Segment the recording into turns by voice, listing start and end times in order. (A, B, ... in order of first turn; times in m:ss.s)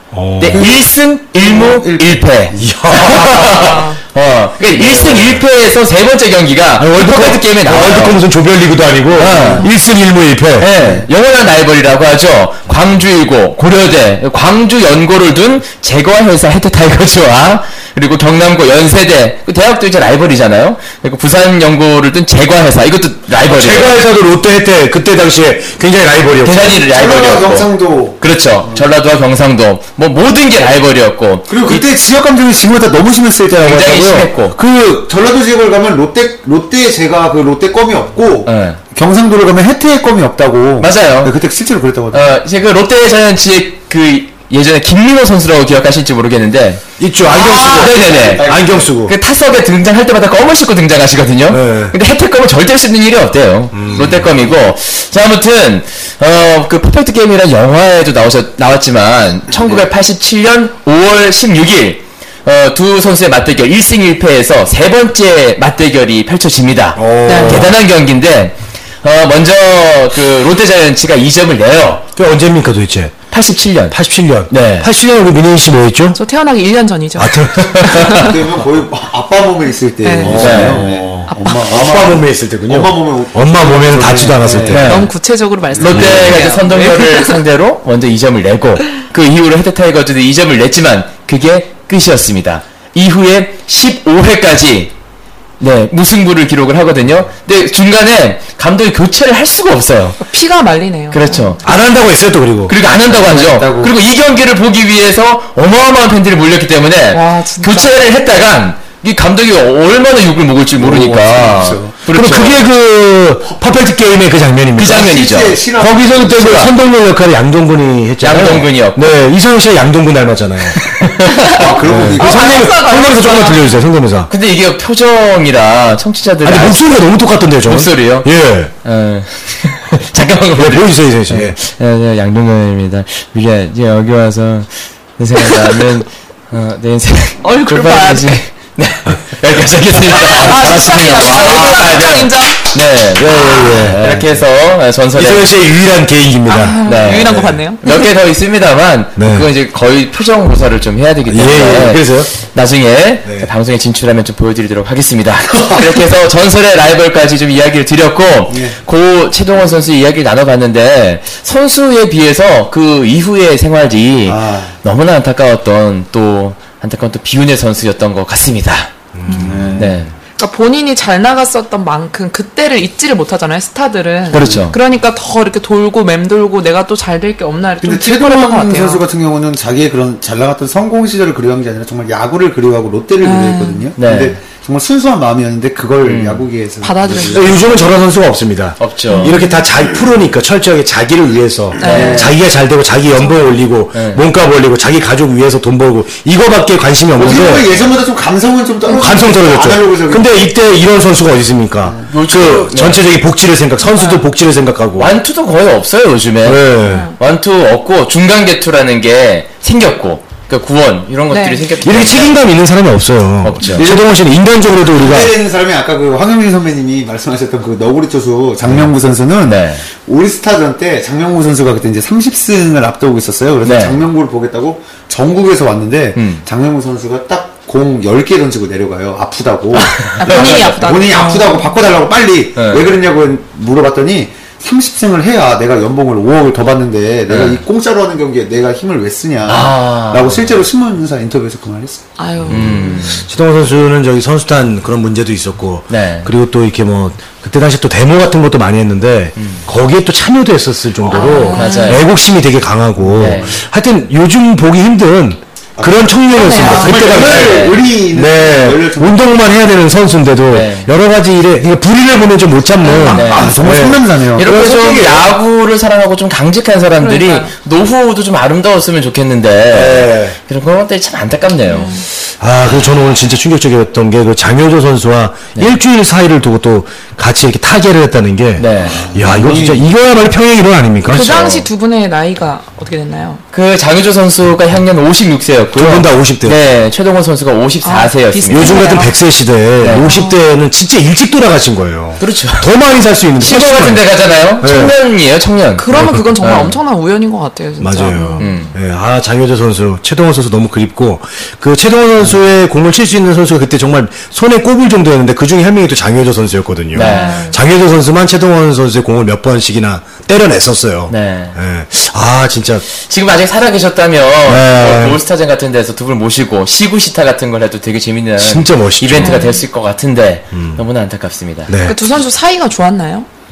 0:00.1-0:00.7 A
0:00.4-0:08.2 B
0:00.5-0:02.6 C
0:02.6-0:03.8 A
0:03.5-0:04.0 D
0:04.8-0:05.4 A
0:06.8-0:10.7 A
0:09.2-0:09.7 B
0:10.6-0:24.0 B
0:10.8-0:11.1 C
0:23.4-0:26.8 A
0:26.4-0:31.9 B
0:26.8-0:28.9 C
0:31.5-0:42.3 C
0:33.6-0:34.6 B
0:38.4-0:38.8 B
0:40.8-0:41.3 B
0:42.1-0:46.8 B
0:47.0-0:49.2 A
0:47.3-0:48.9 C
0:47.5-1:12.0 B
0:51.5-0:52.0 A
0:53.7-0:54.3 A
1:07.0-1:07.8 A
1:07.3-1:07.7 D
1:12.2-1:13.2 A
1:13.3-1:14.0 B
1:13.9-1:16.2 A
1:14.5-1:14.9 B
1:16.2-1:18.3 D
1:17.2-1:18.3 A
1:17.7-1:18.3 B
1:18.1-1:24.9 C
1:20.0-1:20.5 D
1:20.2-1:25.0 A
1:20.4-1:20.9 B
1:21.3-1:21.7 D
1:24.7-1:25.1 B
1:24.8-1:27.4 D
1:25.8-1:34.9 B
1:25.8-1:26.1 C
1:25.8-1:26.4 A
1:35.6-1:40.2 B
1:40.2-1:41.6 D
1:41.1-1:41.6 B
1:41.6-1:42.7 A
1:42.7-1:52.6 B
1:43.1-1:43.9 C
1:47.1-1:47.9 D
1:50.8-1:52.0 C
1:52.1-1:55.2 A
1:54.8-1:55.6 B
1:54.9-1:56.7 C
1:55.8-2:01.1 A
1:56.3-1:56.7 B
1:58.2-1:59.1 B
2:00.8-2:01.6 B
2:01.5-2:02.8 C
2:01.8-2:04.3 A
2:02.2-2:03.7 D
2:04.3-2:06.9 B
2:06.4-2:08.7 A
2:07.7-2:08.3 B
2:08.8-2:25.5 B
2:10.6-2:11.6 A
2:17.4-2:18.4 D
2:20.1-2:22.6 D
2:20.6-2:21.8 A
2:23.2-2:24.4 A
2:25.1-2:27.6 A
2:26.5-2:28.0 D
2:26.8-2:48.9 B
2:29.2-2:29.5 A
2:31.3-2:32.3 A
2:33.2-2:33.5 A
2:35.6-2:35.8 C
2:38.5-2:38.8 C
2:44.3-2:44.8 C
2:49.1-2:49.9 A
2:49.3-2:49.6 D
2:49.4-2:49.9 C
2:49.8-2:50.1 B
2:50.4-2:59.0 D
2:54.3-2:54.8 B
2:54.4-2:54.6 C
2:57.8-3:07.7 C
3:03.2-3:03.9 D
3:04.0-3:04.4 B
3:06.0-3:06.5 B
3:06.8-3:07.6 D
3:07.2-3:17.7 A
3:08.8-3:09.4 B
3:09.1-3:09.6 D
3:11.8-3:12.3 D
3:11.8-3:12.4 C
3:11.9-3:12.3 B
3:13.9-3:14.2 B
3:17.2-3:20.4 C
3:18.9-3:25.1 A
3:22.1-3:23.0 B
3:23.8-3:24.2 D
3:25.0-3:32.4 B
3:26.4-3:27.1 A
3:26.8-3:27.2 D
3:31.3-3:31.6 D
3:31.8-3:35.3 A
3:33.4-3:33.8 B
3:33.8-3:34.1 C
3:34.9-4:02.0 C
3:39.4-3:39.8 B
3:43.6-3:44.0 B
3:46.2-3:46.4 B
3:49.7-3:50.9 B
3:50.2-3:51.7 D
3:52.6-3:52.8 B
3:57.3-3:57.6 B
3:59.5-4:00.6 B
4:02.2-4:03.1 D
4:02.5-4:03.3 B
4:02.5-4:25.3 A
4:05.9-4:06.3 B
4:09.4-4:09.6 B
4:11.1-4:12.0 D
4:11.5-4:12.0 B
4:13.2-4:13.6 B
4:15.8-4:19.2 C
4:16.3-4:17.0 D
4:17.0-4:17.8 B
4:20.5-4:20.9 B
4:22.8-4:23.2 D
4:22.9-4:24.5 C
4:23.1-4:23.5 B
4:24.4-4:32.0 B
4:27.0-4:27.5 D
4:29.7-4:30.4 A
4:31.7-4:32.1 D
4:32.4-4:41.3 A
4:38.6-4:39.1 B
4:38.8-4:39.8 C
4:41.1-4:43.4 D
4:41.1-4:41.7 B
4:43.5-4:48.9 B
4:45.7-4:46.6 A
4:47.8-4:49.2 D
4:48.5-4:54.0 A
4:49.8-4:50.1 B
4:49.9-4:50.4 D
4:52.2-4:52.7 B
4:53.4-4:55.9 B
4:54.6-4:54.9 A
4:55.8-4:58.5 D
4:55.9-4:56.4 A
4:56.4-4:56.8 B
4:57.8-5:12.8 A
4:58.4-4:58.7 B
5:06.9-5:07.4 B
5:07.0-5:07.6 D
5:11.1-5:11.6 B
5:13.0-5:21.7 B
5:14.5-5:15.2 A
5:18.4-5:19.4 A
5:19.2-5:19.6 D
5:20.5-5:20.8 A
5:21.7-5:22.0 A
5:21.9-5:23.3 D